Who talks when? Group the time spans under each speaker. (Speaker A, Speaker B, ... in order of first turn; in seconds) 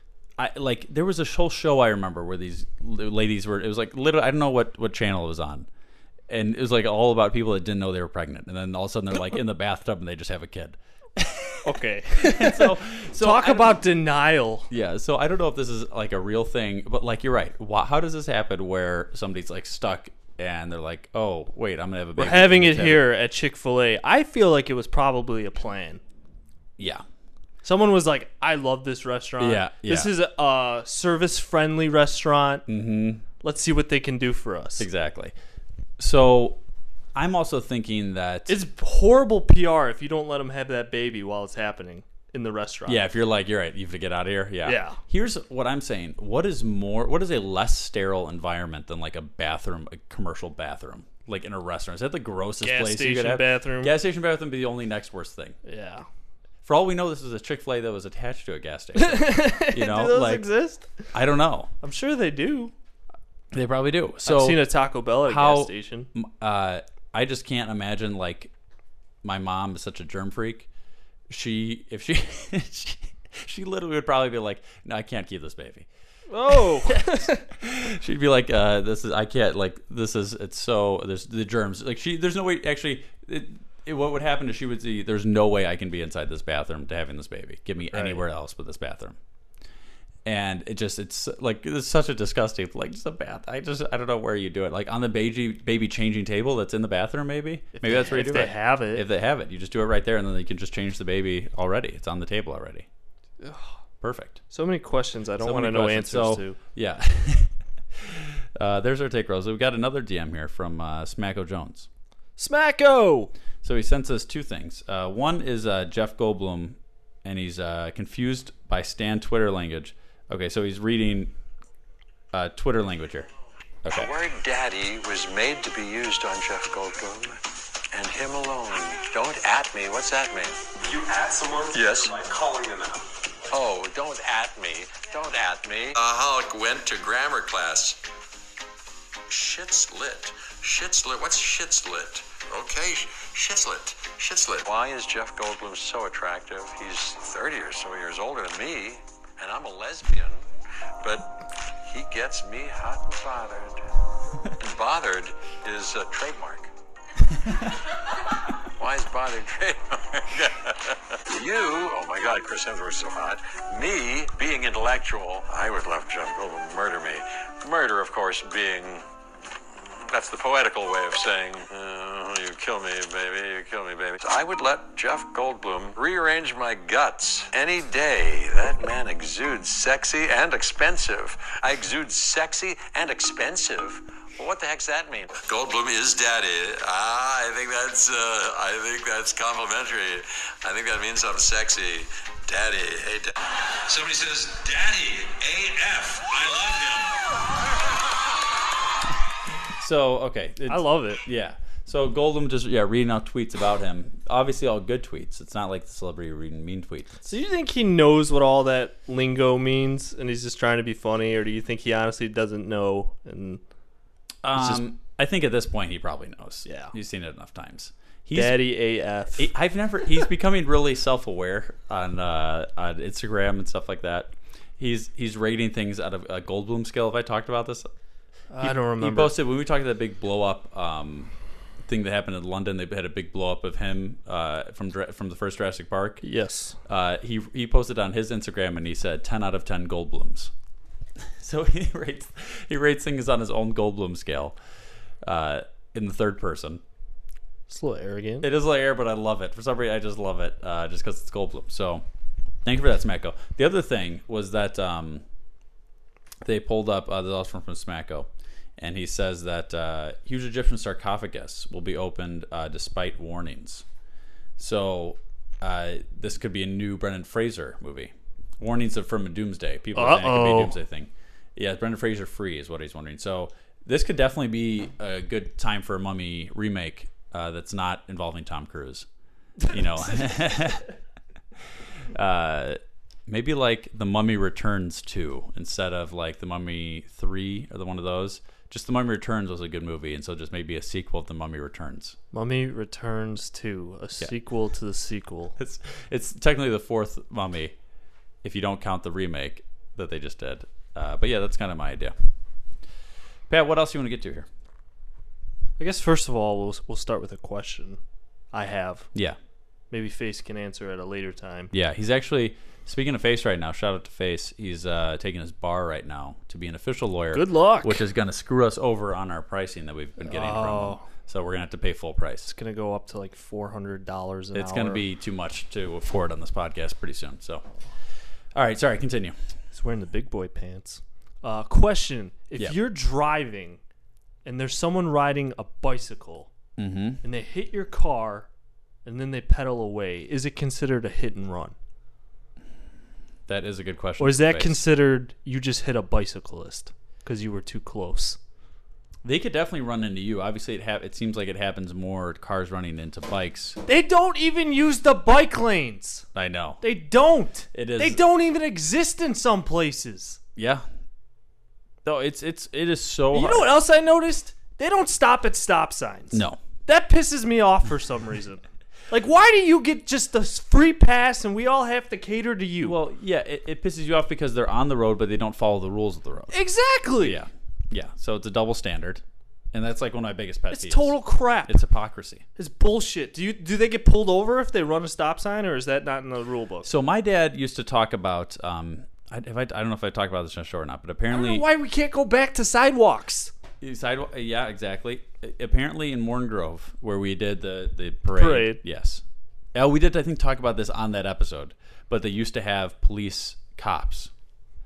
Speaker A: 0.4-5.7, 6.3-13.8, 14.7-23.0, 26.8-27.0, 29.4-30.1, 32.7-33.2, 34.8-35.3, 36.0-36.6, 37.1-38.6, 42.9-55.6, 56.6-60.5, 61.1-61.7, 63.5-68.5, 69.2-70.7, 71.3-75.9, 76.5-89.2, 90.2-102.9, 104.0-104.4, 105.4-111.9, 113.6-121.3, 122.3-123.3, 123.8-124.1, 157.3-157.7, 199.5-207.3, 214.4-218.6, 219.3-227.9, 228.6-231.3, 231.8-236.2, 236.8-240.5, 241.2-244.6, 245.2-246.8, 248.4-252.0, 252.6-255.2, 256.4-263.8, 264.6-279.1, 279.7-280.9, 282.1-292.2, 295.6-297.7, 298.4-302.1, 303.5-304.5, 311.7-322.5, 324.5-327.6, 328.5-329.4, 336.8-337.2, 343.5-344.8, 349.2-353.8, 356.3-356.8, 357.7-358.2, 360.6-360.9, 362.0-363.7, 366.3-366.6, 372.8-376.5, 377.2-379.2, 379.7-382.4, 386.8-391.7, 393.8-399.2, 399.7-404.3
Speaker B: 11.6-14.7, 22.2-26.0, 27.6-32.6, 33.4-34.9, 38.5-43.0, 44.6-45.0, 52.6-53.9, 55.6-56.0, 59.0-61.1, 61.8-62.7, 64.2-66.1, 76.3-77.4, 87.9-88.2, 97.7-99.0, 103.4-103.8, 104.5-106.6, 112.4-113.3, 200.7-201.2, 207.2-213.6, 216.6-216.9, 218.3-219.5, 228.5-229.4, 236.2-236.8, 247.7-248.5, 269.9-270.7, 279.6-280.4, 292.3-295.6, 305.8-308.0, 308.5-309.1, 309.9-311.7, 317.3-318.0, 320.2-321.1, 322.4-325.0, 329.7-333.8, 334.4-336.5, 337.2-338.5, 339.0-341.8, 344.2-348.4, 353.9-356.2, 356.8-360.4, 363.3-373.0, 376.5-377.4, 380.7-381.8, 382.6-386.9, 391.3-393.5, 398.3-398.8
Speaker C: 123.9-127.4, 127.9-130.6, 131.7-132.2, 133.5-138.0, 139.3-150.4, 151.0-153.8, 154.6-156.7, 158.8-169.1, 169.7-193.3, 193.9-197.0
Speaker D: 130.8-133.1